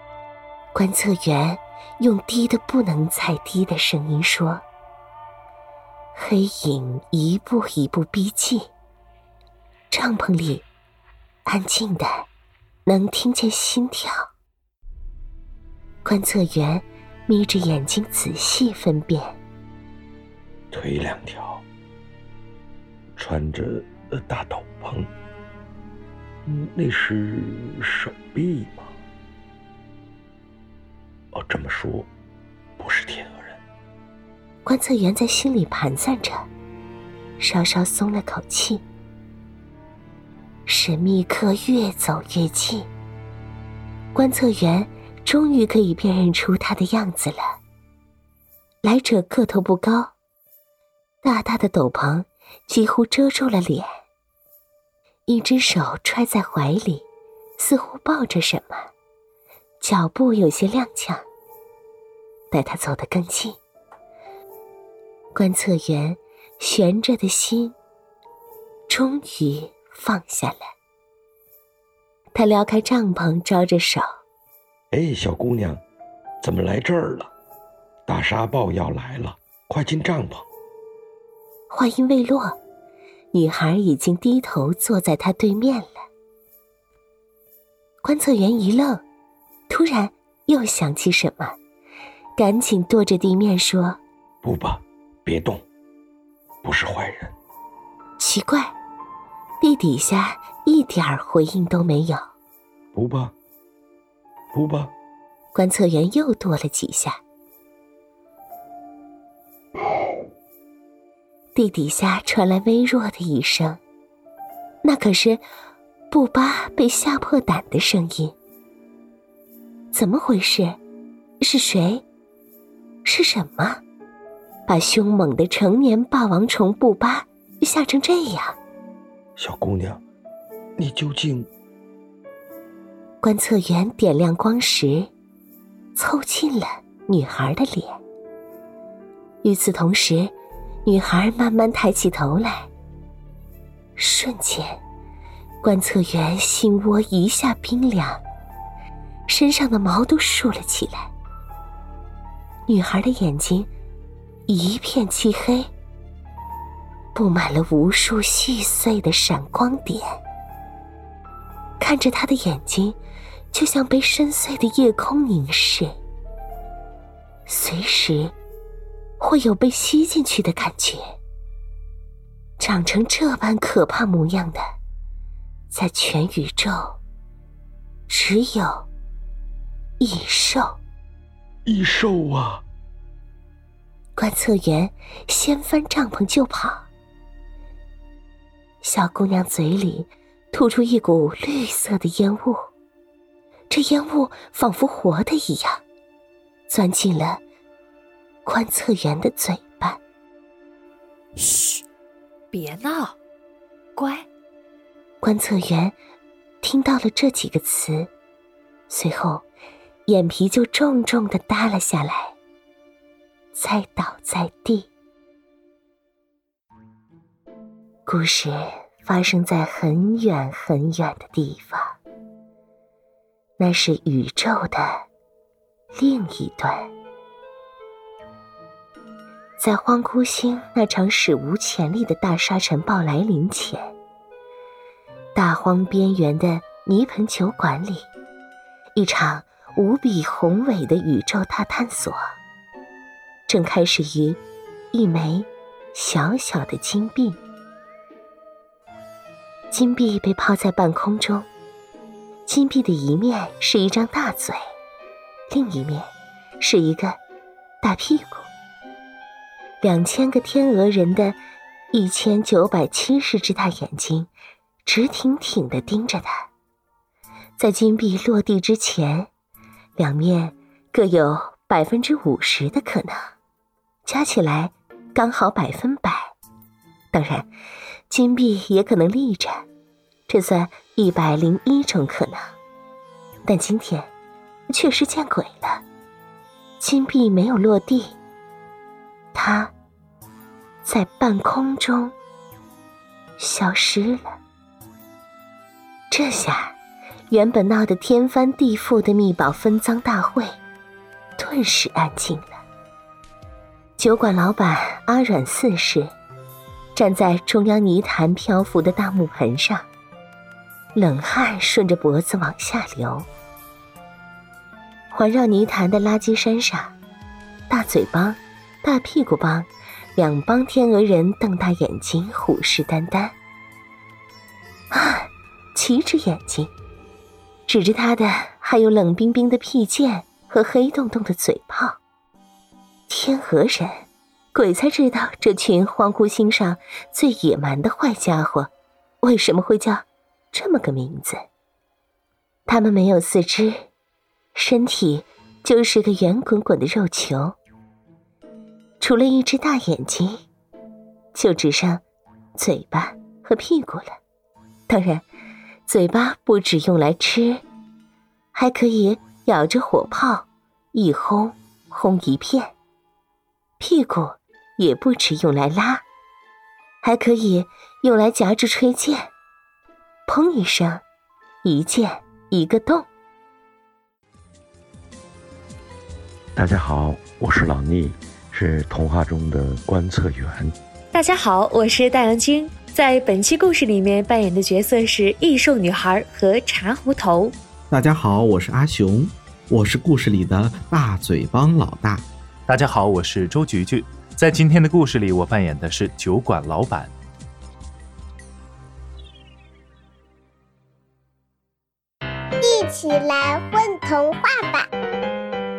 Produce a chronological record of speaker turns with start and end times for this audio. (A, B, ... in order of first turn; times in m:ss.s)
0:00.7-0:04.6 A
0:06.2-0:08.7 A
0:09.9-0:10.7 A
0:11.5-0:12.3 A
0:12.9-0:14.3 A
0:16.0-0:19.4 A
0:20.7-0:21.6 B
0:23.2-0:25.1 B
0:26.5-0:28.9 B
0:31.3-0:32.1 B
0:32.8-0:33.6 B
0:34.6-0:36.5 A
0:37.4-0:38.8 A
0:40.7-0:42.9 A
0:44.2-0:47.6 A
0:48.8-0:50.1 A
0:51.2-0:54.0 A
0:55.3-0:57.1 A
0:57.6-0:58.9 A
0:59.8-1:01.2 A
1:02.5-1:03.6 A
1:05.4-1:07.8 A
1:08.9-1:10.7 A
1:12.3-1:14.2 A
1:14.9-1:15.8 B
1:16.4-1:17.3 B
1:18.1-1:20.5 B
1:21.7-1:22.6 A
1:23.3-1:26.0 A
1:28.0-1:29.0 A
1:29.7-1:31.6 A
1:32.4-1:34.0 A
1:34.4-1:35.6 B
1:36.6-1:37.4 B
1:38.2-1:38.8 A
1:39.6-1:42.3 A
1:42.9-1:43.3 B
1:44.5-1:44.9 B
1:45.5-1:47.2 A
1:51.5-1:53.8 A
1:54.8-1:55.4 A
1:56.1-1:58.4 A
1:59.9-2:00.8 A
2:01.4-2:02.0 A
2:03.0-2:03.8 A
2:04.7-2:08.6 A
2:09.4-2:10.0 B
2:10.8-2:11.5 B
2:13.2-2:15.1 A
2:16.0-2:18.0 A
2:19.4-2:20.3 A
2:20.8-2:22.7 A
2:24.0-2:24.8 A
2:25.6-2:28.2 A
2:29.3-2:31.1 A
2:32.7-2:33.7 A
2:34.5-2:35.7 A
2:37.2-2:40.2 A
2:41.8-2:43.0 A
2:43.5-2:46.0 A
2:47.5-2:48.4 A
2:49.2-2:51.2 A
2:52.6-2:54.6 A
2:55.7-2:57.0 A
2:58.1-2:58.9 A
3:00.0-3:00.8 A
3:01.7-3:02.6 B
3:04.2-3:06.9 A
3:08.8-3:12.7 A
3:13.7-3:15.8 A
3:16.7-3:17.4 A
3:18.4-3:20.0 A
3:21.4-3:21.8 C
3:22.5-3:23.2 C
3:24.0-3:24.3 C
3:25.2-3:26.0 A
3:26.6-3:28.1 A
3:28.9-3:29.5 A
3:30.1-3:32.4 A
3:33.5-3:34.9 A
3:38.1-3:42.0 A
3:43.6-3:45.1 A
3:46.0-3:46.9 A
3:49.6-3:53.9 A
3:55.4-3:58.1 A
3:59.0-4:02.2 A
4:03.5-4:04.4 A
4:04.9-4:07.4 A
4:09.7-4:11.5 A
4:12.5-4:14.6 A
4:15.5-4:17.2 A
4:17.8-4:18.5 A
4:19.8-4:21.4 A
4:21.9-4:24.3 A
4:24.8-4:26.5 A
4:27.6-4:29.3 A
4:30.0-4:33.3 A
4:34.0-4:36.3 A
4:37.1-4:37.5 A
4:38.1-4:39.6 A
4:40.3-4:42.6 A
4:43.4-4:44.1 A
4:44.7-4:45.8 A
4:46.8-4:48.2 A
4:49.3-4:49.7 A
4:50.8-4:52.1 A
4:53.4-4:54.4 A
4:56.1-4:56.8 A
4:57.3-5:00.5 A
5:01.4-5:02.6 A
5:04.0-5:06.1 A
5:07.0-5:09.9 A
5:11.0-5:13.3 A
5:15.1-5:17.0 A
5:17.7-5:23.4 A
5:24.9-5:26.7 A
5:27.7-5:32.0 A
5:33.1-5:38.7 A
5:39.2-5:41.4 A
5:42.7-5:43.9 A
5:44.5-5:47.6 A
5:49.0-5:50.4 A
5:51.3-5:52.0 A
5:52.6-5:54.2 A
5:54.9-5:55.2 A
5:55.9-5:57.6 A
5:58.5-6:02.7 A
6:03.8-6:06.0 A
6:07.0-6:09.3 A
6:10.3-6:11.0 A
6:11.6-6:13.1 A
6:16.6-6:20.8 B
6:21.1-6:27.6 C
6:27.9-6:32.3 D
6:32.7-6:37.1 E
6:42.6-6:44.9 F